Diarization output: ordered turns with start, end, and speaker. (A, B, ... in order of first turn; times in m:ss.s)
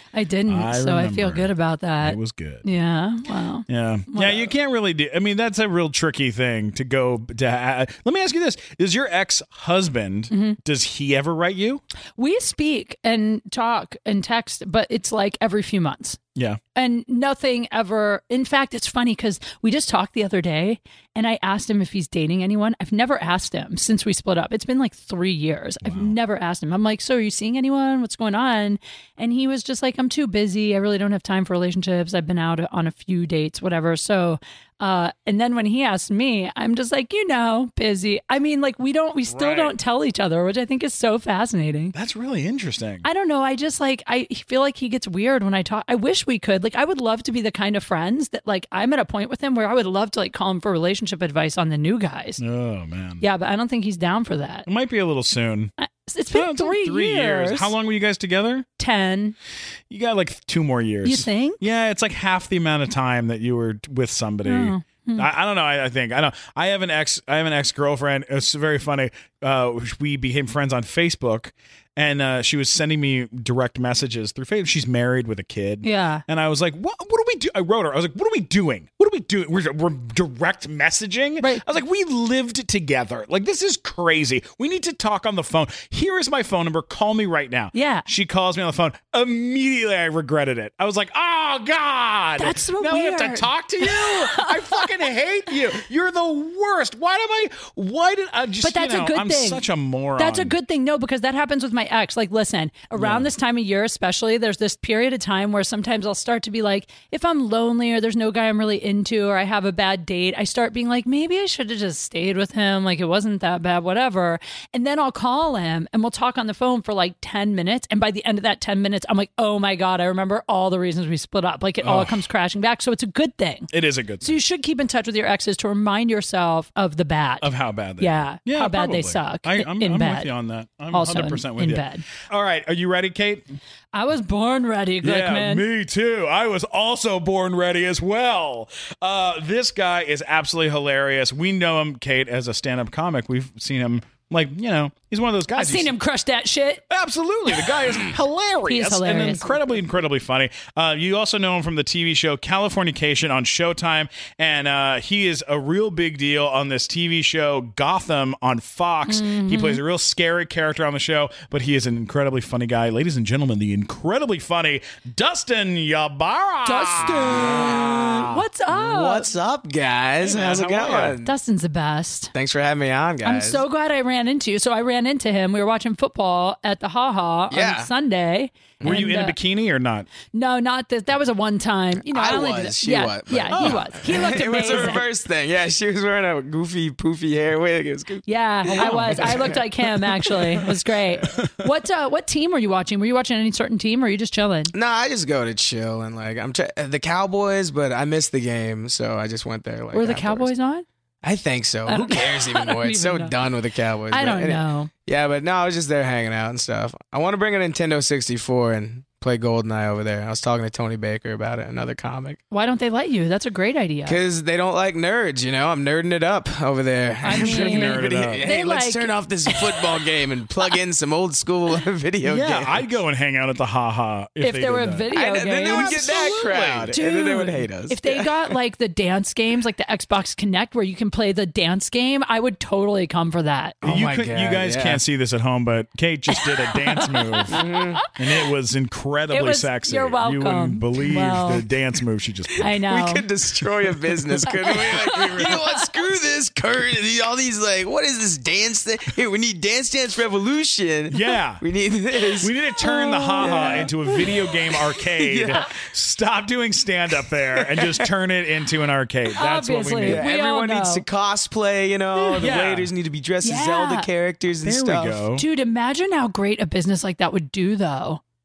0:00.1-0:04.5 A
0:00.5-0:01.5 B
0:02.0-0:02.6 B
0:03.7-0:11.8 B
0:10.3-0:10.6 A
0:12.2-0:16.2 A
0:16.8-0:41.9 A
0:25.8-0:26.1 B
0:39.3-0:39.8 B
0:41.9-0:43.0 B
0:43.0-0:52.4 A
0:52.4-0:53.2 B
0:53.2-0:54.7 A
0:54.6-0:55.7 B
0:55.8-0:57.7 A
0:56.3-0:58.6 B
0:58.8-0:59.3 A
0:59.9-1:40.5 B
1:01.0-1:01.6 A
1:04.4-1:05.3 A
1:15.8-1:16.2 A
1:21.4-1:21.6 A
1:27.7-1:28.0 A
1:32.4-1:34.9 A
1:38.6-1:39.6 A
1:40.2-2:03.7 A
1:43.0-1:43.3 B
2:01.8-2:02.3 B
2:03.7-2:04.4 B
2:04.2-2:10.3 A
2:07.4-2:13.4 B
2:10.9-2:12.0 A
2:13.9-2:15.6 A
2:15.0-2:25.9 B
2:25.6-2:26.8 A
2:26.9-2:48.3 B
2:28.6-2:29.6 A
2:39.0-2:39.8 A
2:46.6-2:49.3 A
2:47.1-2:51.3 C
2:50.2-2:51.2 B
2:51.2-2:52.3 A
2:52.3-2:53.6 C
2:53.2-2:59.3 A
2:57.5-2:57.9 C
2:58.8-3:00.1 B
3:00.3-3:05.0 A
3:02.0-3:09.7 C
3:03.5-3:05.0 B
3:08.2-3:14.7 A
3:08.7-3:09.6 B
3:14.7-3:20.5 C
3:19.9-3:20.8 A
3:21.2-3:32.4 C
3:21.9-3:23.4 A
3:24.1-3:24.9 A
3:32.5-3:34.2 A
3:34.0-3:42.8 C
3:37.2-3:39.8 A
3:37.3-3:38.5 B
3:42.2-3:45.1 B
3:44.4-3:53.8 A
3:45.1-3:48.5 C
3:45.6-3:46.9 B
3:53.8-3:55.0 C
3:53.8-3:57.6 B
3:56.8-3:58.1 A
3:57.5-3:58.0 C
3:58.1-4:02.7 B
3:59.3-4:01.6 A
4:02.6-4:03.2 A
4:02.7-4:12.5 C
4:04.4-4:05.5 B
4:04.6-4:05.6 A
4:11.1-4:11.6 B
4:12.4-4:20.2 B
4:12.8-4:14.3 A
4:13.4-4:14.3 C
4:15.2-4:15.7 C
4:17.5-4:18.1 C
4:19.3-4:21.0 A
4:20.0-4:25.2 C
4:22.4-4:22.9 B
4:23.4-4:24.1 A
4:24.6-4:25.4 B
4:25.4-4:28.2 A